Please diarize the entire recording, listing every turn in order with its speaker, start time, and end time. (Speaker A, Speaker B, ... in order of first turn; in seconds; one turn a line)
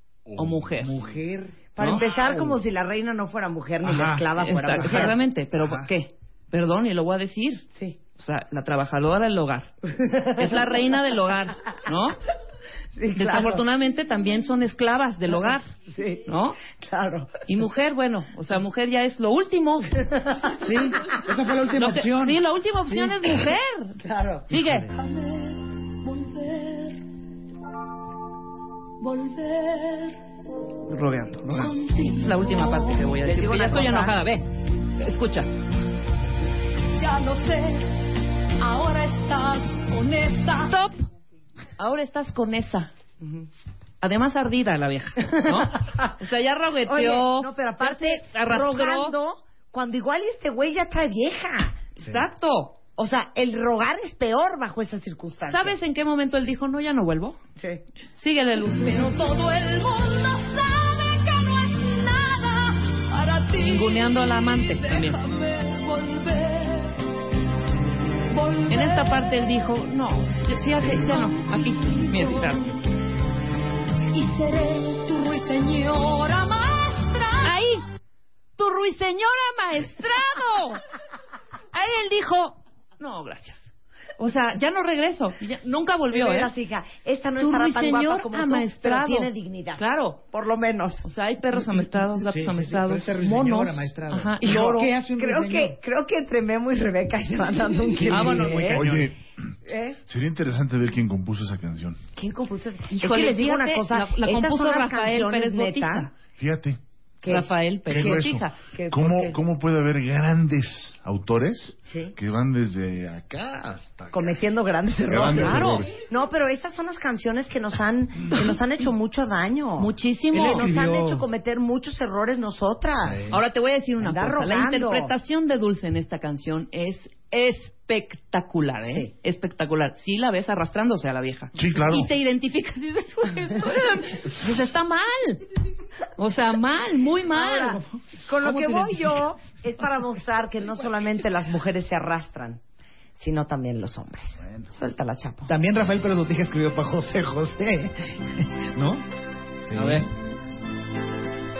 Speaker A: 0.3-1.2
Speaker B: 0.4-0.9
Speaker C: 0.8-2.6
Speaker D: 1.8-5.2
Speaker B: 1.8-2.0
Speaker C: 3.8-4.2
Speaker B: 4.3-7.6
Speaker C: 5.6-5.9
Speaker B: 8.2-9.7
Speaker D: 9.9-10.7
Speaker B: 10.3-12.2
Speaker D: 12.9-13.6
Speaker B: 13.1-15.7
Speaker D: 15.9-17.3
Speaker B: 16.3-16.6
Speaker B: 17.5-20.0
Speaker D: 20.2-20.5
Speaker C: 20.6-23.3
Speaker B: 21.7-24.0
Speaker D: 24.0-24.5
Speaker B: 24.5-24.9
Speaker C: 24.5-24.9
Speaker E: 24.9-27.0
Speaker E: 29.0-30.2
Speaker B: 30.9-35.5
Speaker E: 31.5-33.2
Speaker D: 33.2-34.1
Speaker E: 36.9-37.9
Speaker E: 38.6-40.7
Speaker B: 40.6-41.0
Speaker B: 41.8-42.9
Speaker D: 43.2-43.5
Speaker B: 44.0-49.1
Speaker D: 45.8-46.1
Speaker D: 46.9-51.9
Speaker B: 52.0-52.8
Speaker D: 52.9-55.8
Speaker B: 55.5-57.4
Speaker B: 58.2-59.1
Speaker E: 58.7-67.0
Speaker B: 63.6-65.2
Speaker E: 68.3-69.4
Speaker B: 68.7-72.8
Speaker E: 70.8-72.7
Speaker E: 74.1-77.5
Speaker B: 77.4-77.8
Speaker B: 78.6-80.8
Speaker B: 81.7-83.6
Speaker B: 84.2-86.5
Speaker D: 86.1-91.1
Speaker B: 87.4-90.2
Speaker B: 91.0-94.9
Speaker C: 92.2-95.8
Speaker D: 94.4-98.9
Speaker C: 98.0-99.0
Speaker B: 98.1-98.8
Speaker A: 98.6-99.2
Speaker D: 99.6-100.0
Speaker A: 100.1-102.0
Speaker D: 102.2-106.1
Speaker B: 102.9-106.1
Speaker A: 106.3-106.8
Speaker D: 107.2-109.4
Speaker B: 107.3-108.5
Speaker A: 107.9-114.4
Speaker D: 111.9-112.1
Speaker D: 114.1-123.3
Speaker A: 115.1-116.0
Speaker B: 115.2-115.8
Speaker B: 119.8-120.7
Speaker C: 120.3-121.2
Speaker C: 123.0-123.4
Speaker B: 123.3-135.4
Speaker D: 124.0-125.1
Speaker D: 128.8-129.1
Speaker A: 131.6-132.1
Speaker B: 136.2-137.8
Speaker D: 137.3-142.6
Speaker C: 138.3-139.2
Speaker D: 143.2-145.5
Speaker C: 145.5-149.0
Speaker C: 149.6-150.1
Speaker B: 149.7-150.1